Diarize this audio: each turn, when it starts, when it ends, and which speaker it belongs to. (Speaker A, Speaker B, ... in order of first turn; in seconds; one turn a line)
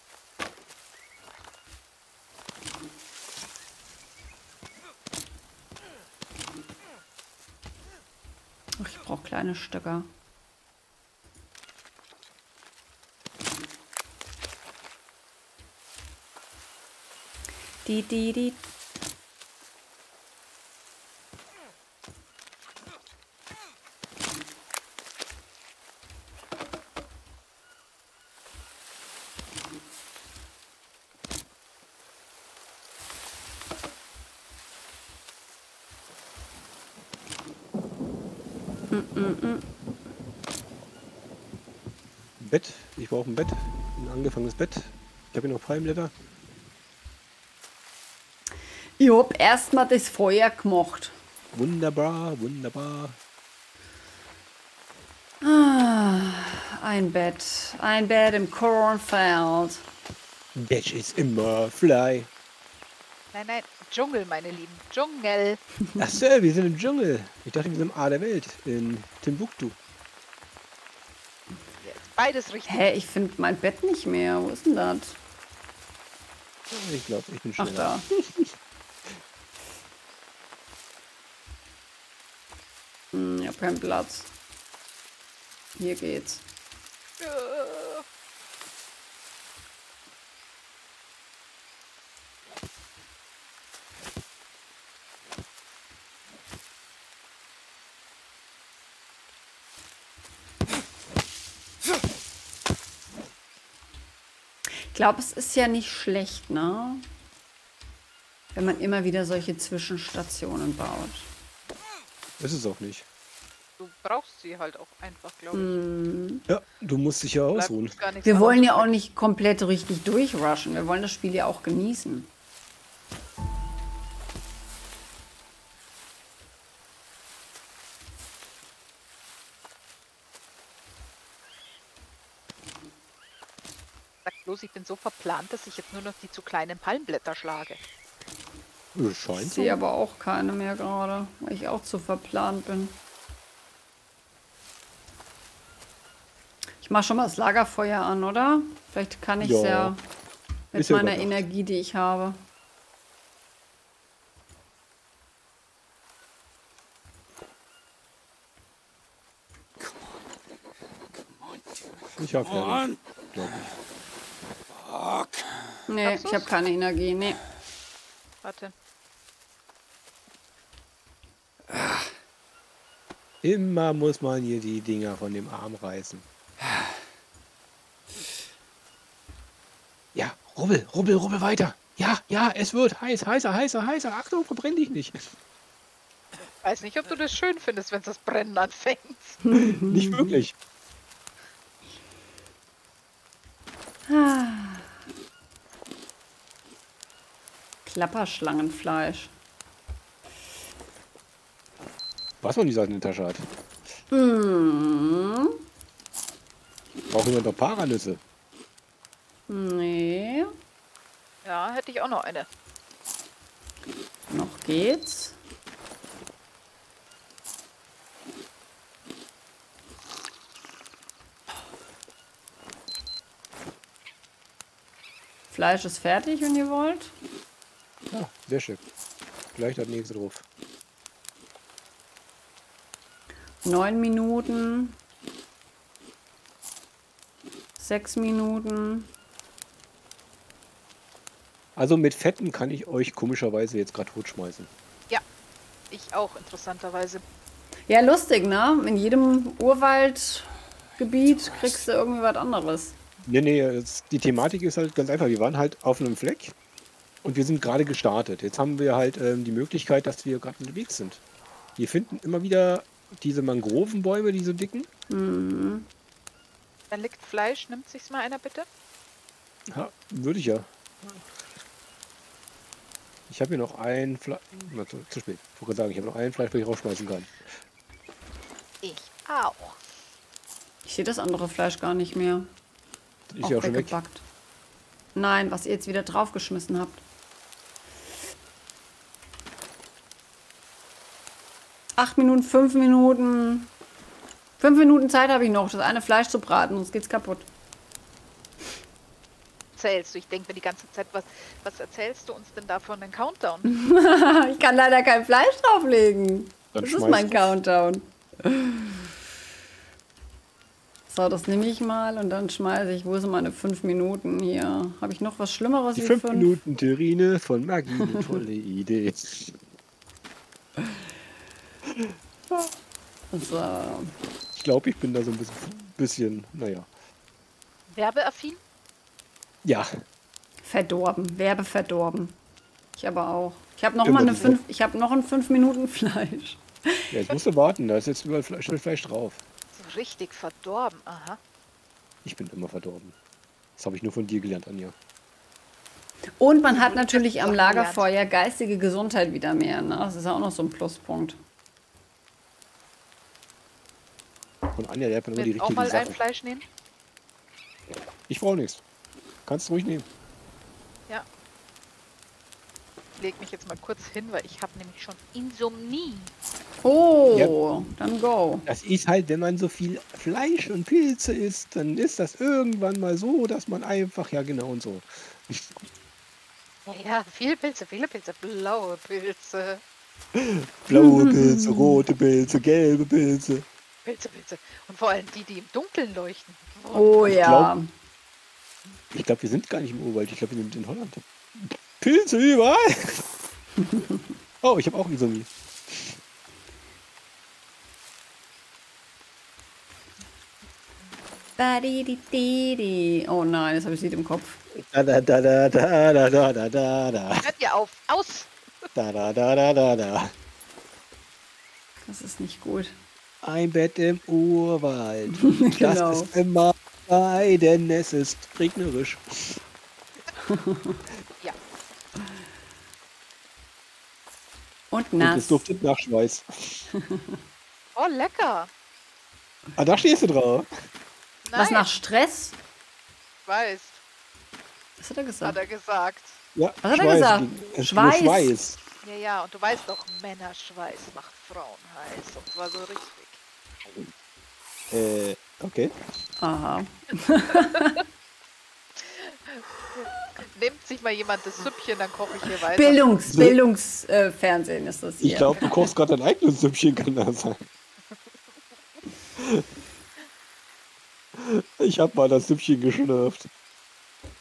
Speaker A: 8.8-10.1
Speaker A: 17.8-18.6
Speaker A: 38.9-39.6
Speaker B: 42.4-46.1
Speaker A: 49.0-51.1
Speaker B: 51.5-53.2
Speaker A: 55.4-59.8
Speaker B: 60.5-62.3
Speaker C: 63.3-65.6
Speaker B: 66.0-69.8
Speaker C: 71.8-72.9
Speaker A: 72.7-75.2
Speaker B: 76.7-78.5
Speaker A: 77.6-78.0
Speaker A: 83.1-84.3
Speaker A: 85.8-86.4
Speaker C: 87.2-88.0
Speaker A: 104.9-107.0
Speaker A: 108.5-111.3
Speaker B: 112.4-113.0
Speaker C: 113.8-115.8
Speaker A: 115.5-116.4
Speaker B: 116.5-117.9
Speaker C: 117.5-118.9
Speaker A: 118.2-122.3
Speaker C: 134.2-137.8
Speaker B: 138.9-139.8
Speaker A: 139.3-143.0
Speaker A: 146.8-150.0
Speaker B: 149.4-149.9
Speaker A: 150.7-152.4
Speaker B: 150.7-151.4
Speaker B: 162.2-163.7
Speaker A: 165.9-167.4
Speaker C: 166.0-166.5
Speaker C: 168.4-168.7
Speaker B: 173.4-176.2
Speaker B: 180.1-185.2
Speaker C: 186.6-189.4
Speaker A: 189.4-190.3
Speaker B: 189.6-190.5
Speaker A: 194.1-194.9
Speaker A: 197.8-199.3
Speaker B: 202.4-203.5
Speaker A: 204.1-205.6
Speaker B: 207.1-208.2
Speaker A: 209.5-210.5
Speaker C: 211.4-212.5
Speaker A: 214.3-215.4
Speaker A: 225.5-227.1
Speaker B: 228.1-228.8
Speaker B: 229.5-230.4
Speaker A: 233.6-235.0
Speaker A: 237.8-239.1
Speaker B: 241.8-244.7
Speaker C: 245.9-247.2
Speaker A: 247.9-252.9
Speaker B: 253.2-256.5
Speaker B: 257.2-261.2
Speaker B: 261.8-264.9
Speaker A: 265.1-265.9
Speaker C: 266.9-268.7
Speaker B: 269.7-271.2
Speaker B: 273.3-277.4
Speaker C: 278.8-279.8
Speaker A: 280.8-282.5
Speaker B: 283.3-283.9
Speaker A: 283.4-284.2
Speaker A: 285.1-287.0
Speaker A: 292.0-293.7
Speaker A: 294.6-297.5
Speaker C: 299.8-303.7
Speaker A: 303.6-309.0
Speaker B: 306.7-307.6
Speaker A: 311.1-316.5
Speaker B: 315.9-319.6
Speaker B: 321.9-322.7
Speaker A: 323.3-324.1
Speaker B: 324.5-326.9
Speaker C: 327.9-328.6
Speaker B: 329.6-329.9
Speaker A: 330.6-332.4
Speaker A: 333.0-337.1
Speaker B: 334.0-334.6
Speaker B: 337.1-339.4
Speaker C: 339.7-341.4
Speaker B: 342.2-343.1
Speaker B: 343.8-344.9
Speaker A: 346.4-351.4
Speaker C: 346.6-348.1
Speaker B: 354.7-356.2
Speaker C: 355.4-356.6
Speaker B: 358.3-358.8
Speaker B: 359.4-360.1
Speaker C: 363.2-366.3
Speaker A: 366.8-368.6
Speaker B: 368.7-375.8
Speaker C: 376.9-379.8
Speaker B: 380.3-383.6
Speaker A: 380.9-382.0
Speaker C: 384.0-387.4
Speaker A: 386.9-387.9
Speaker B: 387.3-387.7
Speaker B: 389.1-393.2
Speaker A: 393.8-394.2
Speaker B: 394.6-396.2
Speaker A: 401.6-404.6
Speaker B: 404.7-407.5
Speaker C: 407.4-408.5
Speaker B: 408.9-410.3
Speaker A: 412.0-412.9
Speaker B: 413.4-419.6
Speaker A: 415.4-416.3
Speaker A: 420.4-421.0
Speaker A: 424.9-425.6
Speaker B: 425.2-426.9
Speaker A: 426.9-427.4
Speaker C: 427.9-428.7
Speaker B: 429.8-430.7
Speaker C: 431.4-431.9
Speaker A: 431.5-432.5
Speaker C: 433.4-434.0
Speaker A: 435.0-435.6
Speaker C: 435.4-436.4
Speaker B: 436.5-438.8
Speaker A: 436.8-438.5
Speaker C: 439.0-443.4
Speaker B: 444.9-445.9
Speaker A: 446.4-448.0
Speaker C: 449.0-453.1
Speaker A: 452.7-455.7
Speaker B: 453.3-453.6
Speaker B: 455.2-457.6
Speaker B: 459.4-459.6
Speaker B: 461.4-463.5